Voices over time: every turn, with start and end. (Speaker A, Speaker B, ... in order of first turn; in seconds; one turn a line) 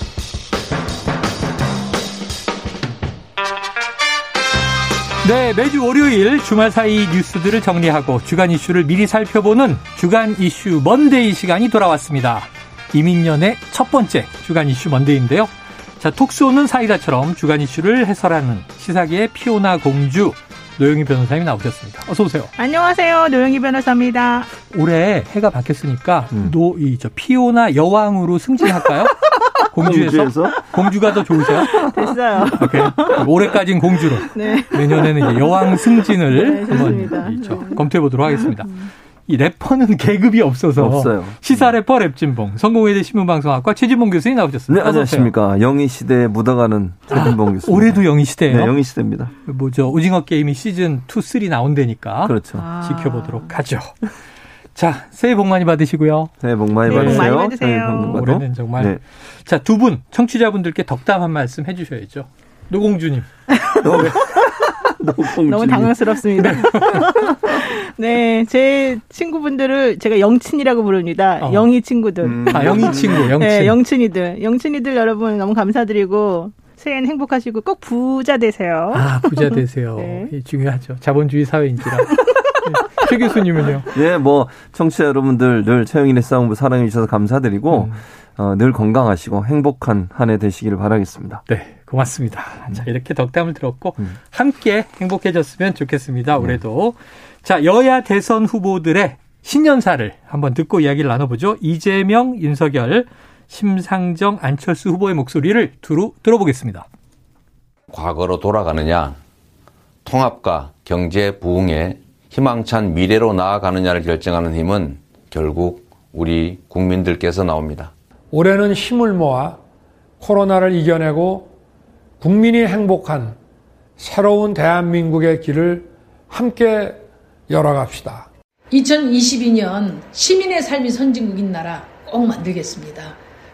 Speaker A: 5.2-22.5
Speaker B: 22.6-24.5
Speaker A: 24.7-31.9
Speaker C: 29.8-30.6
Speaker C: 31.5-31.9
Speaker B: 31.7-33.2
Speaker A: 32.5-45.3
Speaker B: 34.3-35.8
Speaker B: 36.3-37.8
Speaker B: 38.4-38.9
Speaker C: 40.8-41.7
Speaker C: 44.7-49.3
Speaker A: 47.1-48.8
Speaker A: 49.4-54.1
Speaker C: 52.2-52.6
Speaker B: 52.5-53.6
Speaker A: 54.8-56.3
Speaker C: 56.4-59.0
Speaker A: 56.9-57.4
Speaker B: 56.9-58.2
Speaker A: 57.9-63.3
Speaker B: 63.5-63.9
Speaker C: 63.8-65.9
Speaker B: 65.5-80.3
Speaker A: 66.4-67.1
Speaker A: 71.4-71.7
Speaker C: 72.2-73.3
Speaker A: 72.5-73.8
Speaker A: 78.9-83.9
Speaker C: 83.9-91.4
Speaker A: 87.7-88.0
Speaker A: 91.5-106.9
Speaker D: 107.9-109.2
Speaker D: 110.0-117.9
Speaker E: 118.3-119.6
Speaker E: 120.2-121.5
Speaker E: 122.2-123.4
Speaker E: 124.0-128.3
Speaker F: 128.7-133.2